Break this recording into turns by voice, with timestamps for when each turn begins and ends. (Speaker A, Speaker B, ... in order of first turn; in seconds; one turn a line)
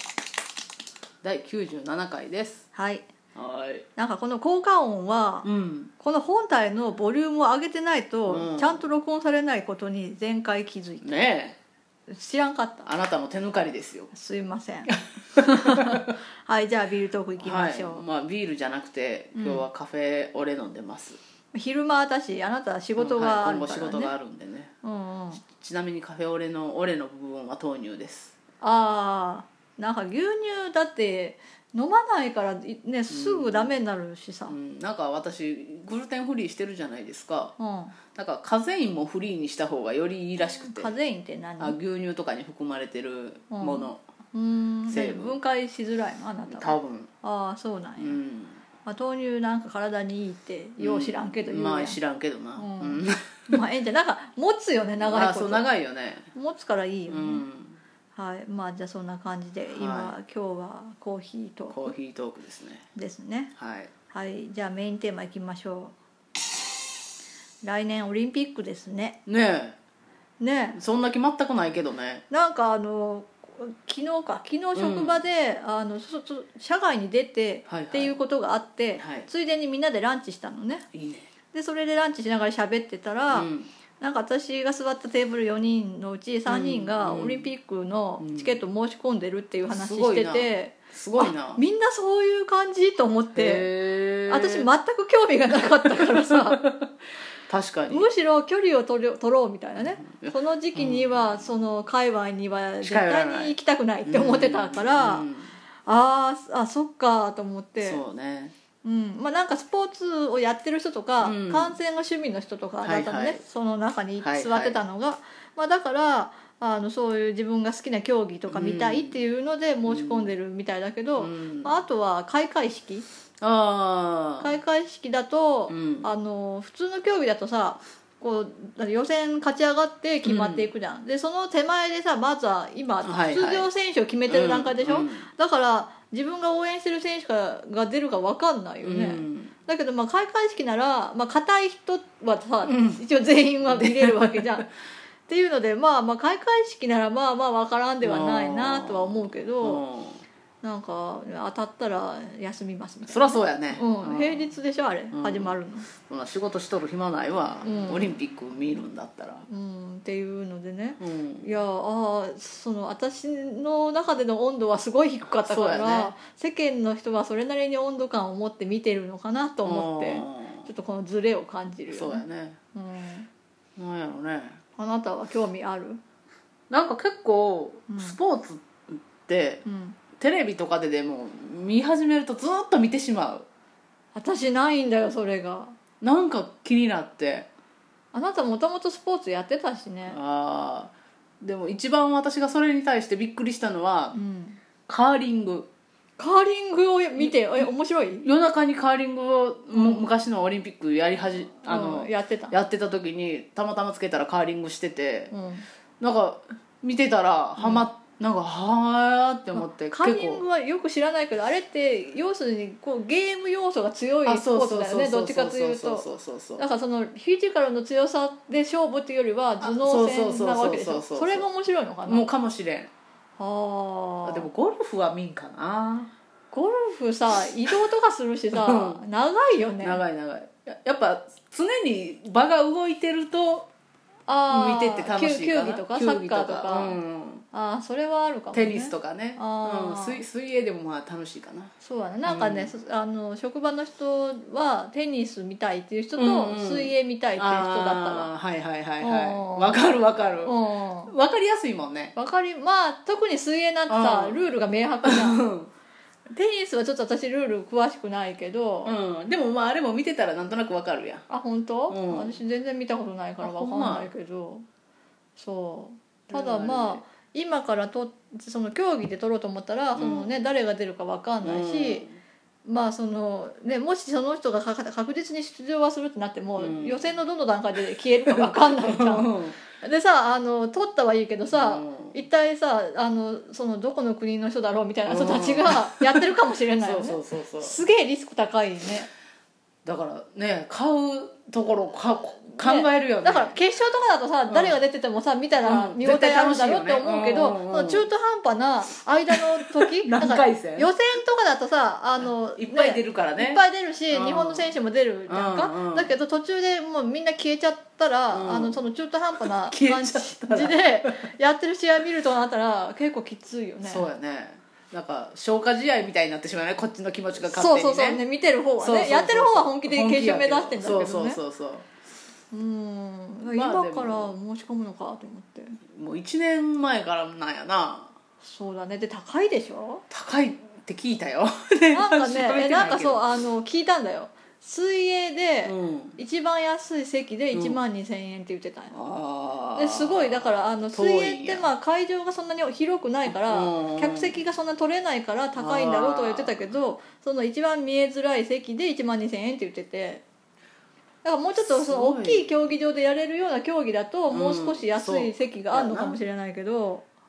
Speaker A: 1.2-2.6
Speaker B: 2.7-3.0
Speaker A: 3.4-3.9
Speaker B: 4.0-11.2
Speaker A: 5.4-5.9
Speaker A: 8.3-8.8
Speaker A: 11.0-11.6
Speaker B: 12.1-12.9
Speaker A: 12.8-14.1
Speaker B: 14.1-18.0
Speaker A: 15.4-16.1
Speaker A: 17.4-21.2
Speaker B: 19.4-19.6
Speaker B: 21.5-24.1
Speaker A: 23.0-24.7
Speaker B: 24.8-25.4
Speaker A: 25.5-28.3
Speaker B: 28.6-34.5
Speaker A: 33.1-33.7
Speaker A: 34.5-37.5
Speaker B: 37.6-38.0
Speaker A: 38.1-40.9
Speaker B: 40.5-41.8
Speaker A: 41.6-44.0
Speaker B: 43.5-48.2
Speaker A: 44.9-45.4
Speaker A: 46.5-47.1
Speaker A: 48.0-48.6
Speaker B: 48.8-52.0
Speaker A: 50.8-53.5
Speaker B: 52.6-55.6
Speaker A: 55.0-56.3
Speaker B: 56.3-57.5
Speaker A: 57.1-57.8
Speaker B: 58.1-61.9
Speaker A: 59.7-60.1
Speaker A: 61.7-62.9
Speaker B: 62.9-63.5
Speaker A: 63.6-63.9
Speaker B: 64.1-65.9
Speaker B: 67.6-69.2
Speaker A: 69.2-69.8
Speaker B: 70.4-70.8
Speaker A: 70.8-72.2
Speaker B: 72.3-80.9
Speaker A: 74.8-75.2
Speaker A: 77.7-78.2
Speaker A: 79.0-79.3
Speaker A: 80.9-81.3
Speaker B: 81.5-83.5
Speaker A: 83.3-83.7
Speaker B: 84.0-93.7
Speaker A: 86.5-87.5
Speaker A: 88.2-88.6
Speaker A: 89.7-91.6
Speaker A: 93.3-94.7
Speaker B: 94.3-96.6
Speaker A: 95.8-96.9
Speaker A: 97.5-98.1
Speaker B: 97.9-105.2
Speaker A: 99.8-101.3
Speaker A: 102.8-105.5
Speaker B: 105.9-108.0
Speaker A: 107.8-108.5
Speaker B: 108.8-123.1
Speaker A: 111.2-111.8
Speaker A: 112.8-113.4
Speaker A: 114.2-114.8
Speaker A: 118.5-119.2
Speaker A: 119.9-120.3
Speaker A: 121.2-121.8
Speaker A: 123.4-124.6
Speaker B: 124.4-144.7
Speaker A: 125.7-126.1
Speaker A: 130.2-130.7
Speaker A: 133.0-133.7
Speaker A: 134.3-135.3
Speaker A: 138.8-139.5
Speaker A: 142.7-143.0
Speaker A: 143.6-144.7
Speaker B: 145.3-149.8
Speaker A: 148.0-150.2
Speaker B: 150.6-155.9
Speaker A: 153.1-154.5
Speaker A: 155.1-159.5
Speaker B: 157.6-158.1
Speaker B: 159.5-173.3
Speaker A: 161.0-161.5
Speaker A: 165.4-166.1
Speaker A: 169.6-170.7
Speaker A: 171.9-172.6
Speaker A: 173.8-174.6
Speaker B: 174.8-176.0
Speaker A: 176.7-179.6
Speaker B: 177.9-178.2
Speaker B: 179.7-180.0
Speaker A: 180.2-183.5
Speaker B: 184.2-185.8
Speaker A: 186.0-187.5
Speaker B: 188.1-190.2
Speaker A: 190.1-194.2
Speaker B: 194.1-194.6
Speaker A: 194.9-195.7
Speaker B: 196.2-198.3
Speaker A: 197.2-197.7
Speaker A: 198.2-205.3
Speaker B: 199.7-200.0
Speaker B: 201.7-202.5
Speaker B: 205.3-205.7
Speaker A: 206.0-210.4
Speaker B: 207.6-207.8
Speaker B: 209.5-216.1
Speaker A: 214.2-216.7
Speaker B: 216.6-222.2
Speaker A: 219.6-221.5
Speaker A: 222.1-222.9
Speaker B: 223.4-224.5
Speaker A: 224.2-226.1
Speaker B: 226.5-230.0
Speaker A: 228.5-229.0
Speaker A: 229.8-233.7
Speaker B: 234.3-237.0
Speaker A: 234.5-237.4
Speaker B: 237.5-240.2
Speaker A: 238.5-241.7
Speaker B: 241.8-248.3
Speaker A: 242.2-242.7
Speaker A: 246.2-252.1
Speaker B: 249.0-249.8
Speaker B: 250.4-251.1
Speaker B: 252.2-255.4
Speaker A: 253.9-254.5
Speaker A: 255.0-255.7
Speaker B: 256.3-258.9
Speaker A: 258.9-261.2
Speaker B: 261.3-264.6
Speaker A: 261.9-262.4
Speaker A: 263.4-264.1
Speaker B: 265.4-272.1
Speaker A: 266.3-267.0
Speaker A: 269.9-270.3
Speaker A: 271.4-272.2
Speaker B: 272.6-289.1
Speaker A: 276.6-277.1
Speaker A: 278.3-279.6
Speaker A: 281.5-282.2
Speaker A: 285.1-287.8
Speaker A: 289.9-293.6
Speaker B: 292.5-314.1
Speaker A: 294.5-294.8
Speaker A: 295.6-298.1
Speaker A: 299.3-300.9
Speaker A: 302.6-304.7
Speaker A: 305.3-306.1
Speaker A: 308.3-308.8
Speaker A: 309.4-311.3
Speaker A: 313.8-318.2
Speaker B: 317.4-321.4
Speaker A: 318.8-321.9
Speaker B: 322.5-325.8
Speaker A: 323.5-324.3
Speaker A: 325.9-328.1
Speaker B: 328.4-330.0
Speaker A: 330.1-333.3
Speaker B: 331.9-338.9
Speaker A: 335.6-336.2
Speaker A: 337.5-337.8
Speaker A: 338.9-341.7
Speaker B: 339.8-350.2
Speaker A: 343.2-344.4
Speaker A: 345.6-346.7
Speaker B: 351.2-357.1
Speaker A: 351.6-352.5
Speaker A: 354.3-356.2